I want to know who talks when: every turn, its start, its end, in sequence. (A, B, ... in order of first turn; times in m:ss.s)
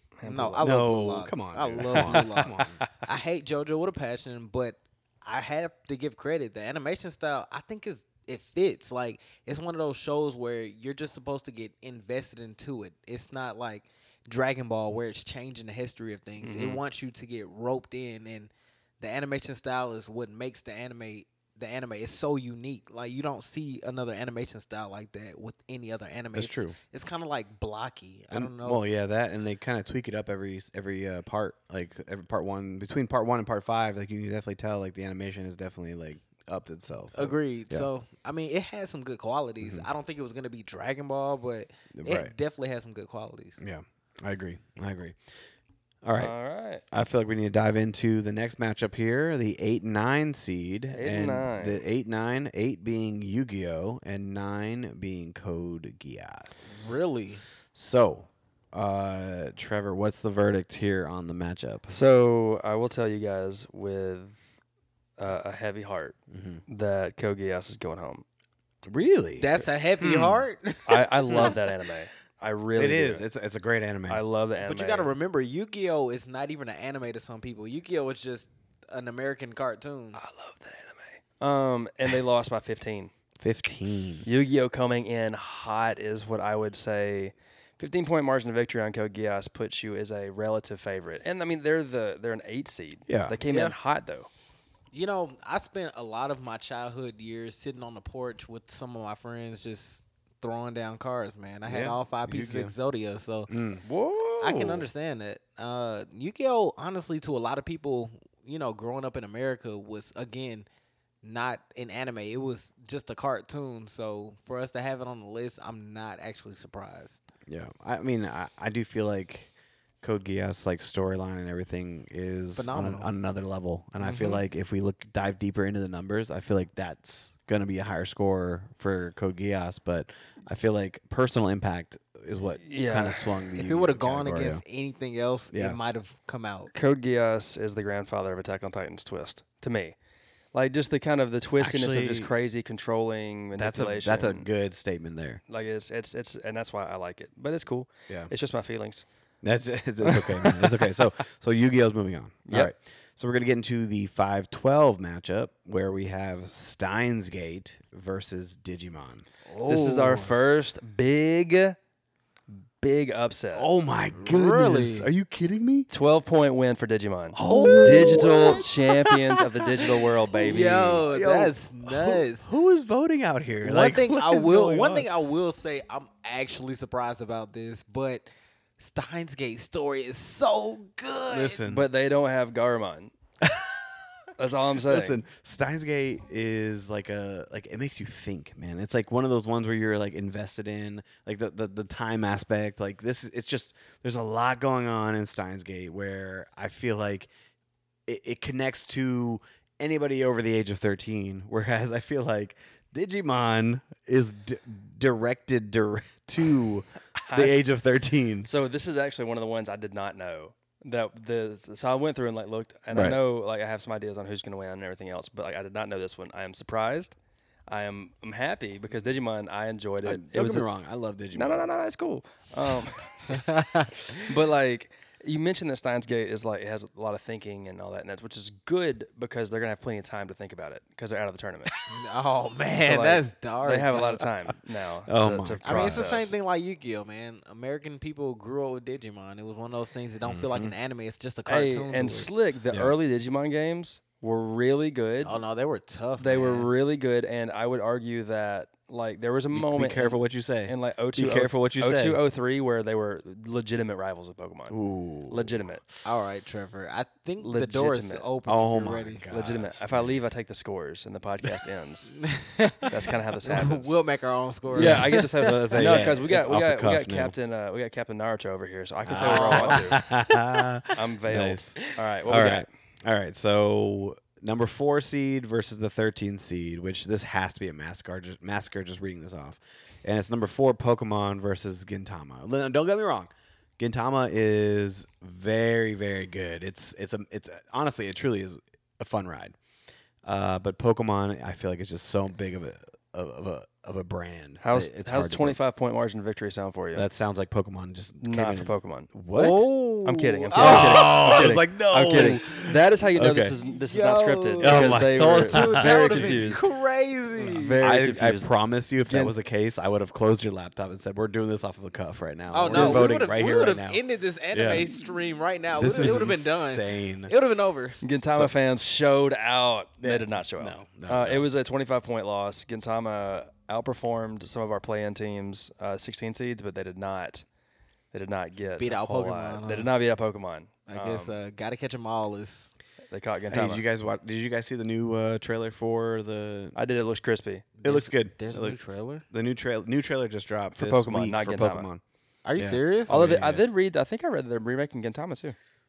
0:00.2-0:00.7 A
0:00.2-0:28.8 B
0:00.6-0:02.8 C
0:01.9-0:03.0 A
0:16.4-0:16.8 A
0:26.3-0:26.8 C
0:28.3-0:37.9 C
0:37.1-0:43.6 B
0:41.9-0:42.3 C
0:43.6-0:45.2 C
0:46.0-0:46.3 C
0:46.2-0:46.8 A
0:46.9-0:57.0 C
0:50.9-0:51.8 A
0:56.6-0:57.4 B
0:57.7-1:01.9 C
1:01.9-1:04.4 A
1:05.2-1:08.2 A
1:06.3-1:06.6 C
1:08.8-1:10.4 C
1:09.4-1:11.5 B
1:10.8-1:13.2 A
1:11.3-1:11.5 C
1:12.8-1:14.2 C
1:14.1-1:15.1 A
1:14.6-1:20.2 B
1:20.2-1:23.1 A
1:23.4-1:24.3 C
1:24.2-1:34.3 A
1:33.1-1:33.4 C
1:33.5-1:33.7 B
1:34.9-1:43.5 B
1:41.6-1:42.7 C
1:43.5-1:43.8 C
1:43.8-1:44.9 A
1:44.4-1:50.6 B
1:51.2-1:57.2 B
1:57.5-2:14.6 C
2:02.6-2:03.1 B
2:04.0-2:04.4 B
2:12.6-2:13.3 A
2:13.6-2:16.7 B
2:15.5-2:15.8 C
2:16.7-2:19.9 A
2:20.5-2:24.5 A
2:21.6-2:22.3 C
2:23.6-2:25.4 C
2:25.5-2:29.0 A
2:29.4-2:39.2 C
2:30.0-2:30.7 A
2:39.5-2:40.3 B
2:39.6-2:41.8 A
2:42.8-2:43.7 A
2:43.5-2:45.9 C
2:44.2-2:45.1 B
2:45.9-2:51.0 A
2:47.3-2:49.4 C
2:47.5-2:48.2 B
2:50.4-2:52.4 B
2:50.8-2:55.1 C
2:53.6-2:58.3 B
2:58.8-3:01.6 B
3:01.3-3:01.9 C
3:01.6-3:03.1 A
3:03.4-3:03.8 C
3:04.4-3:05.2 A
3:04.8-3:17.3 C
3:18.0-3:28.5 C
3:27.3-3:27.6 A
3:28.4-3:37.1 A
3:32.9-3:33.2 C
3:37.7-3:40.7 A
3:40.0-3:41.7 C
3:41.3-3:43.4 A
3:43.3-3:43.9 B
3:44.2-3:51.7 A
3:51.8-3:54.3 B
3:52.8-3:56.3 A
3:55.1-3:56.2 C
3:55.6-4:02.3 B
4:00.2-4:00.7 C
4:01.5-4:05.4 A
4:05.2-4:06.7 B
4:06.2-4:14.8 A
4:09.5-4:12.2 C
4:14.7-4:16.1 C
4:15.3-4:15.8 A
4:16.0-4:19.2 B
4:17.4-4:18.3 A
4:18.4-4:20.1 C
4:19.3-4:22.1 A
4:22.2-4:26.0 B
4:22.9-4:24.0 A
4:24.7-4:27.3 C
4:24.7-4:30.0 A
4:29.0-4:49.6 C
4:29.2-4:30.4 B
4:30.9-4:32.6 A
4:50.2-4:55.6 C
4:54.6-4:57.1 A
4:56.9-4:59.7 C
4:58.2-4:59.1 A
4:59.3-5:02.4 B
5:00.0-5:06.7 A
5:00.6-5:03.5 C
5:03.6-5:07.8 B
5:04.6-5:06.5 C
5:07.4-5:14.0 C
5:07.4-5:08.5 A
5:09.0-5:09.3 A
5:12.5-5:18.0 B
5:12.7-5:13.2 A
5:14.5-5:14.9 C
5:15.7-5:17.3 C
5:18.0-5:27.4 A
5:20.0-5:21.4 C
5:28.1-5:31.4 A
5:28.8-5:29.9 B
5:30.9-5:32.7 B
5:33.1-5:33.8 A
5:33.5-5:36.8 C
5:36.7-5:37.6 A
5:37.8-5:39.2 B
5:37.8-5:38.8 C
5:39.3-5:42.0 C
5:40.7-5:41.9 A
5:42.4-5:43.2 B
5:42.6-5:43.6 C
5:43.1-5:45.6 A